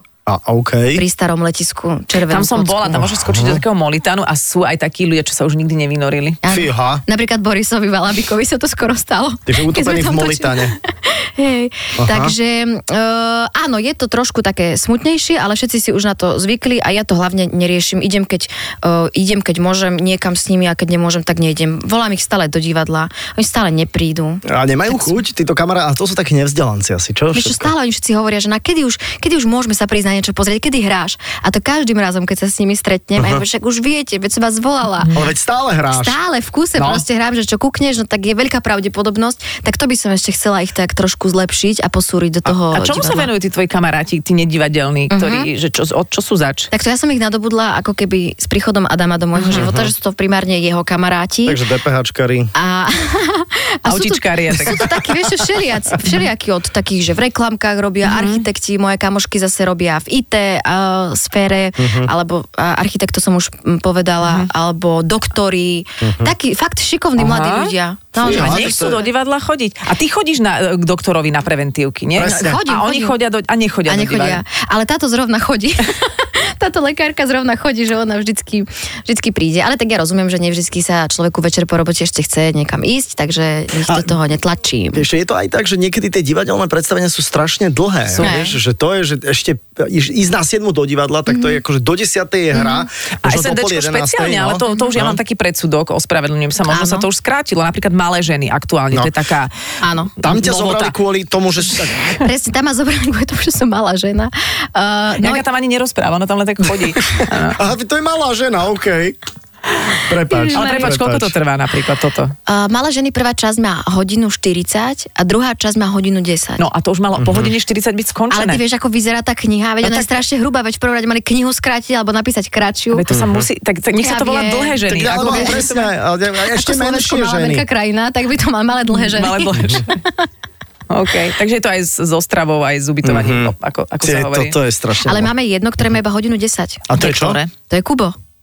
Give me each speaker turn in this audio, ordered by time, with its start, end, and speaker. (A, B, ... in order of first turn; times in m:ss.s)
0:00.3-0:01.0 A
0:00.9-0:03.1 B
0:02.3-0:06.4 C
0:03.0-0:03.6 A
0:06.4-0:25.2 B
0:06.5-0:07.0 A
0:09.5-0:10.7 A
0:12.0-0:12.3 A
0:24.4-0:27.7 A
0:27.3-0:35.1 B
0:33.2-0:33.4 A
0:35.1-0:36.2 A
0:35.9-0:43.3 B
0:36.8-0:37.0 C
0:42.7-0:46.7 C
0:45.1-0:45.5 B
0:46.7-0:51.6 B
0:49.3-0:49.6 C
0:49.5-0:49.9 A
0:51.4-0:52.5 A
0:52.5-1:09.0 B
0:53.8-0:54.8 C
0:58.0-0:58.4 C
1:01.8-1:02.1 A
1:04.2-1:04.5 C
1:06.0-1:06.3 A
1:07.2-1:14.4 C
1:08.2-1:09.0 A
1:12.2-1:12.6 A
1:12.2-1:13.2 B
1:13.9-1:25.0 B
1:23.8-1:24.1 A
1:24.9-1:35.2 A
1:28.1-1:28.4 C
1:28.2-1:28.6 B
1:31.3-1:31.6 B
1:32.5-1:32.9 B
1:33.2-1:39.5 C
1:34.7-1:35.0 B
1:36.6-1:37.1 B
1:39.8-1:40.1 B
1:40.2-1:41.0 C
1:40.2-1:42.2 A
1:42.2-1:45.4 B
1:45.2-1:47.6 C
1:47.2-1:49.2 A
1:50.0-1:51.3 A
1:50.3-1:50.9 B
1:50.5-1:52.3 C
1:52.5-1:56.6 B
1:56.6-1:58.6 C
1:57.2-1:57.5 A
1:58.3-2:03.0 B
1:59.8-2:00.1 C
2:02.9-2:05.9 C
2:03.1-2:03.5 A
2:04.0-2:05.7 B
2:04.9-2:07.6 A
2:06.4-2:10.3 B
2:08.9-2:10.0 C
2:10.9-2:14.6 C
2:13.0-2:15.3 A
2:15.0-2:16.9 B
2:16.9-2:17.4 A
2:17.0-2:17.5 C
2:17.6-2:18.2 B